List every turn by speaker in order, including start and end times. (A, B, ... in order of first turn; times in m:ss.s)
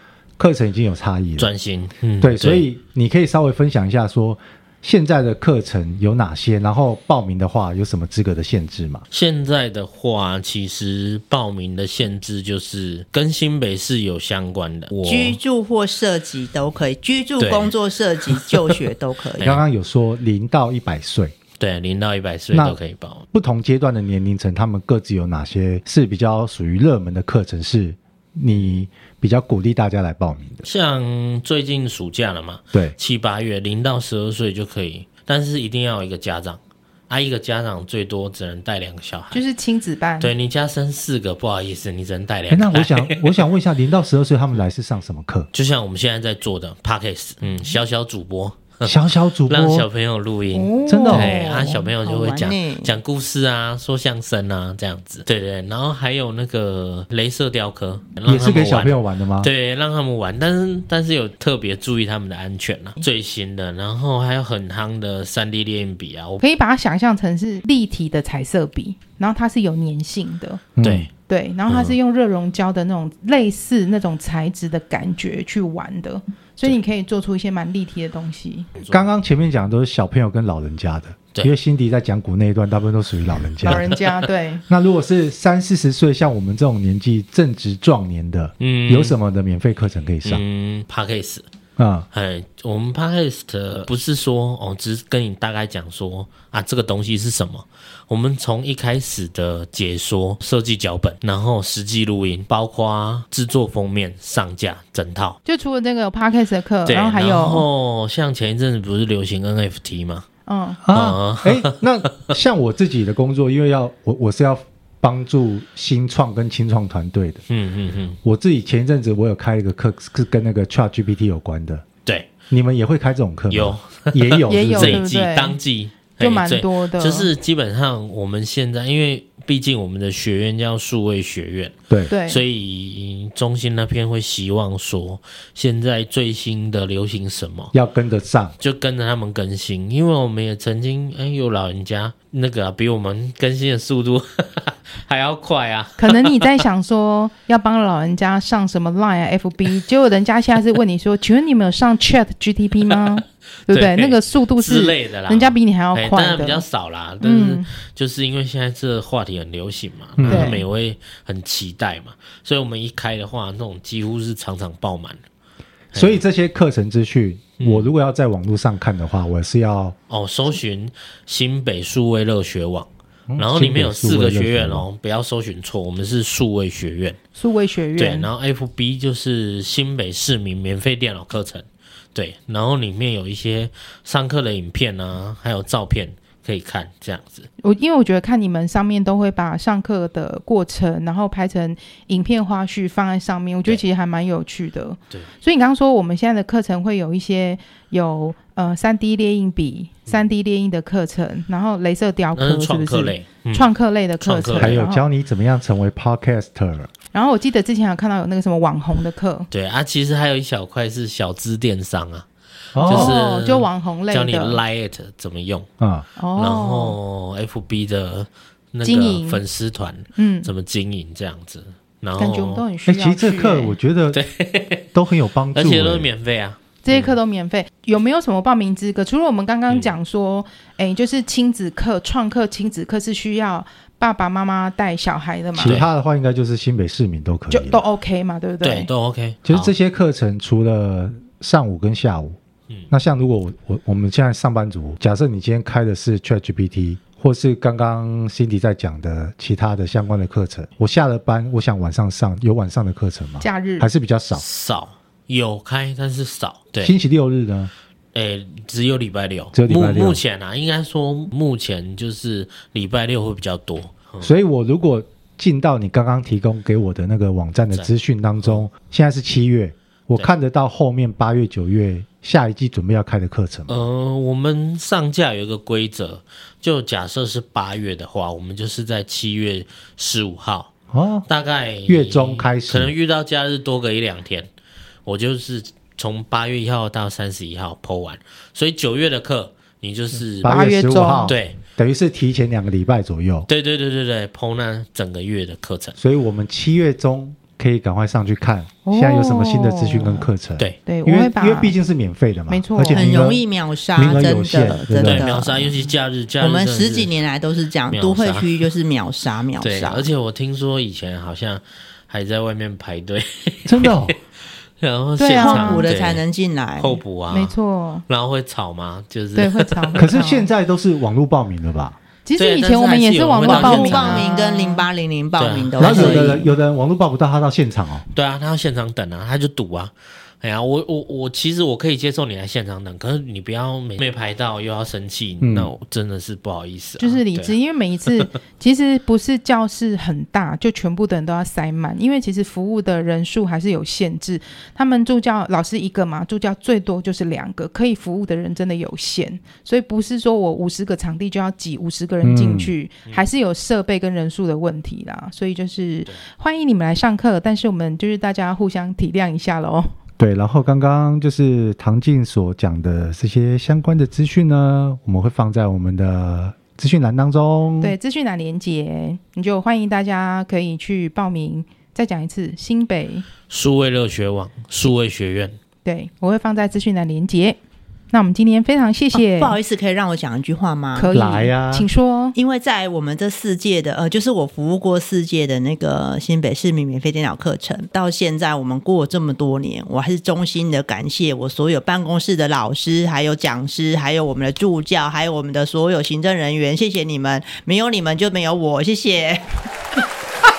0:00.4-0:01.5 A
0:01.4-0:02.7 B
0:02.2-0:09.0 A
0:09.1-0:15.4 B
0:15.0-0:19.5 C
0:17.4-0:17.7 B
0:18.3-0:18.8 B
0:19.4-0:21.3 A
0:21.6-0:23.2 B
0:22.5-0:22.8 A
0:23.3-0:30.6 A
0:30.6-0:39.4 B
0:39.3-0:40.3 D
0:40.2-0:43.4 B
0:42.5-0:45.5 A
0:45.5-1:06.4 B
0:48.8-0:49.8 A
0:50.5-0:51.7 D
0:50.9-0:51.4 A
0:51.6-0:52.9 C
0:58.2-0:59.5 A
1:06.4-1:10.6 D
1:10.8-1:11.1 A
1:10.8-1:11.1 B
1:11.3-1:18.7 D
1:11.7-1:11.9 B
1:18.8-1:19.0 B
1:18.9-1:23.8 A
1:23.6-1:24.6 D
1:24.7-1:30.4 A
1:28.6-1:29.2 B
1:30.2-1:31.4 B
1:31.8-1:32.1 A
1:32.1-1:45.4 B
1:45.4-1:47.6 D
1:46.8-1:50.2 B
1:50.5-1:50.8 D
1:50.8-1:57.4 A
1:50.9-1:52.3 B
1:57.5-1:58.2 B
1:58.2-2:01.8 A
2:02.5-2:05.0 A
2:03.5-2:17.7 B
2:04.5-2:05.6 D
2:06.2-2:07.3 D
2:12.1-2:12.4 D
2:17.7-2:18.5 A
2:18.6-2:26.3 B
2:26.0-2:36.6 D
2:33.7-2:45.2 B
2:37.2-2:37.7 D
2:40.2-2:40.6 A
2:40.3-2:40.6 D
2:45.9-2:46.2 B
2:45.9-2:50.0 A
2:47.6-2:47.9 B
2:50.1-2:57.2 B
2:53.3-2:54.8 A
2:57.4-2:58.3 D
2:58.0-3:07.5 B
3:07.6-3:25.0 D
3:22.3-3:23.6 B
3:24.2-3:24.8 B
3:24.6-3:26.9 A
3:27.1-3:29.5 D
3:29.5-3:32.2 B
3:32.7-3:33.1 A
3:32.8-3:35.7 B
3:32.9-3:34.6 D
3:35.8-3:36.0 A
3:36.2-3:37.0 D
3:36.4-3:42.6 B
3:38.8-3:39.4 D
3:40.1-3:40.5 D
3:42.2-3:43.8 D
3:42.8-3:44.2 A
3:44.1-3:44.8 B
3:44.9-3:46.1 A
3:45.5-3:47.2 B
3:46.8-3:55.8 D
3:49.7-3:50.0 B
3:55.6-3:57.8 A
3:55.6-3:55.9 B
3:57.5-3:58.9 D
3:58.6-3:59.7 B
3:59.4-4:02.4 A
4:02.9-4:14.4 A
4:13.4-4:13.9 D
4:14.3-4:16.9 B
4:16.8-4:17.7 A
4:18.1-4:24.3 B
4:19.5-4:20.2 A
4:24.2-4:33.7 A
4:33.7-4:40.7 B
4:40.9-4:41.2 A
4:41.3-4:44.5 B
4:41.8-4:42.9 A
4:45.0-4:50.6 B
4:50.4-4:53.5 A
4:50.4-4:51.3 D
4:51.2-4:51.6 B
4:53.5-4:56.0 B
4:56.0-5:03.4 A
4:58.8-5:00.3 D
5:00.8-5:01.7 D
5:02.5-5:03.1 D
5:02.9-5:10.1 C
5:03.9-5:05.3 A
5:05.0-5:07.2 B
5:07.9-5:08.7 B
5:09.6-5:14.1 B
5:13.6-5:14.1 A
5:14.8-5:16.2 B
5:15.2-5:15.9 D
5:15.4-5:17.0 C
5:16.8-5:17.5 B
5:17.3-5:18.0 D
5:18.1-5:20.0 B
5:19.4-5:20.5 D
5:20.0-5:22.0 A
5:22.2-5:24.8 D
5:22.4-5:24.3 B
5:23.4-5:26.5 C
5:25.4-5:26.4 B
5:25.8-5:28.0 A
5:28.1-5:37.5 B
5:35.4-5:35.7 A
5:37.0-5:59.9 D
5:52.2-5:52.7 A
6:00.2-6:07.9 A
6:07.8-6:13.2 D
6:13.5-6:15.6 B
6:15.8-6:17.6 D
6:18.1-6:19.6 D
6:19.1-6:21.1 C
6:20.9-6:22.4 D
6:21.1-6:21.9 A
6:22.3-6:39.5 C